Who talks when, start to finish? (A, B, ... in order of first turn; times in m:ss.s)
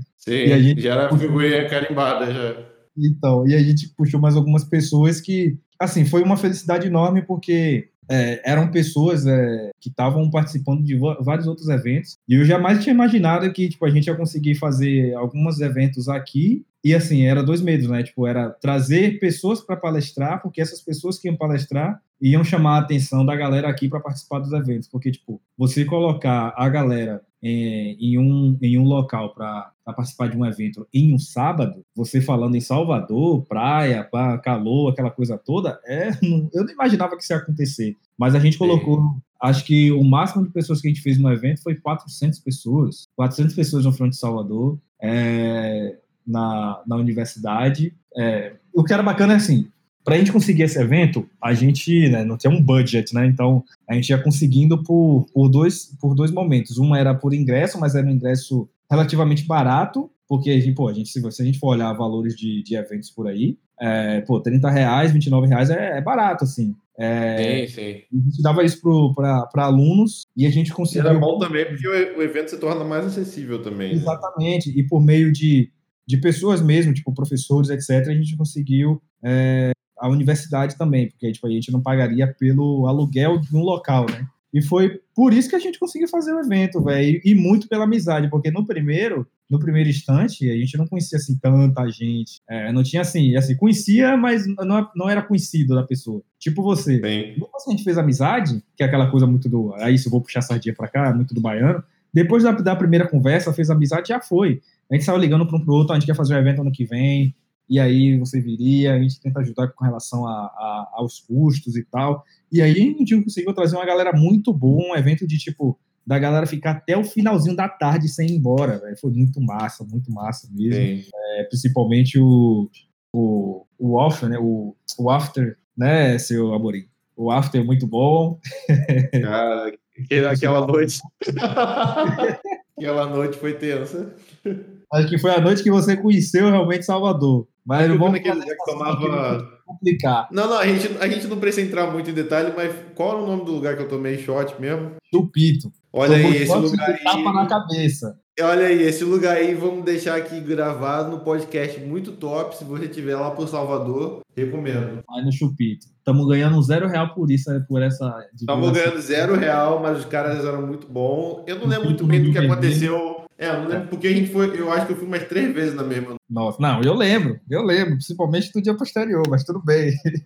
0:00.2-0:02.7 A
0:00.4-0:01.6 B
0:03.0-1:11.8 B
0:38.6-0:39.0 A
1:07.4-1:08.0 A
1:10.9-1:14.2 A
1:13.9-2:09.3 B
1:37.0-1:37.4 A
2:00.7-2:01.0 A
2:09.2-2:14.6 A
2:10.1-2:11.1 B
2:14.9-2:20.3 B
2:17.8-2:19.4 A
2:20.3-2:25.0 A
2:25.1-2:28.2 B
2:25.9-2:27.6 A
2:28.4-2:35.0 A
2:35.1-2:39.3 B
2:38.5-2:46.2 A
2:41.6-2:42.9 B
2:46.3-2:50.0 B